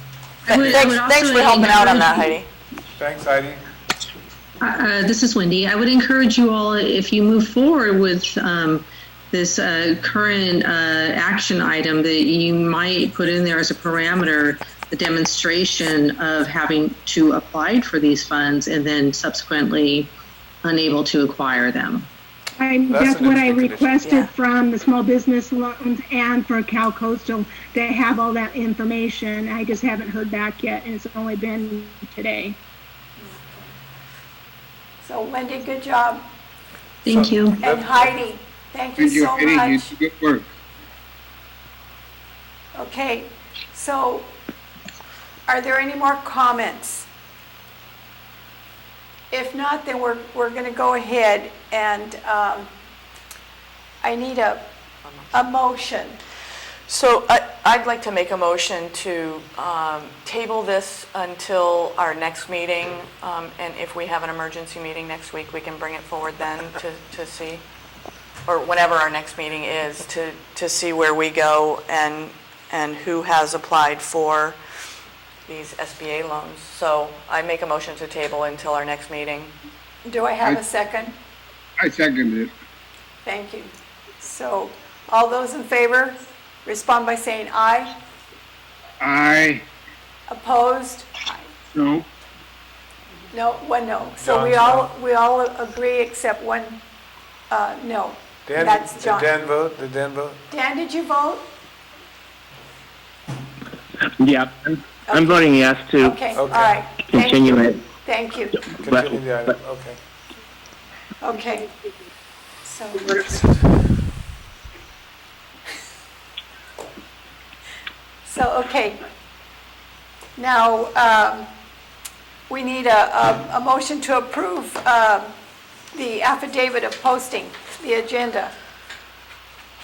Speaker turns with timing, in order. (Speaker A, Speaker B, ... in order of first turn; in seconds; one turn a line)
Speaker A: 0.4-2.3
Speaker B: 0.5-2.5
Speaker C: 2.9-3.6
Speaker A: 4.6-20.1
Speaker A: 20.6-22.1
Speaker D: 22.6-32.6
Speaker C: 22.9-24.0
Speaker B: 24.0-24.3
Speaker E: 33.2-33.7
Speaker E: 35.0-36.3
Speaker A: 37.0-37.6
Speaker C: 37.0-38.1
Speaker E: 37.6-39.9
Speaker F: 39.0-40.5
Speaker E: 42.7-44.3
Speaker E: 45.5-47.1
Speaker E: 49.3-52.7
Speaker E: 54.0-54.7
Speaker B: 55.1-55.3
Speaker E: 55.3-56.2
Speaker B: 56.9-67.6
Speaker B: 68.5-74.6
Speaker B: 75.5-79.5
Speaker E: 80.0-81.2
Speaker F: 81.8-82.5
Speaker E: 83.2-87.9
Speaker F: 89.0-89.6
Speaker E: 90.3-91.5
Speaker F: 91.7-92.0
Speaker E: 93.3-96.8
Speaker C: 94.2-94.9
Speaker E: 97.5-99.3
Speaker C: 98.5-100.4
Speaker E: 100.5-101.5
Speaker G: 104.2-106.1
Speaker E: 105.1-105.4
Speaker E: 106.0-108.7
Speaker C: 106.3-106.8
Speaker G: 107.1-107.6
Speaker C: 108.8-110.0
Speaker E: 111.2-111.7
Speaker E: 112.6-113.5
Speaker E: 118.2-119.0
Speaker E: 120.4-121.5
Speaker E: 122.5-125.3
Speaker E: 125.9-128.5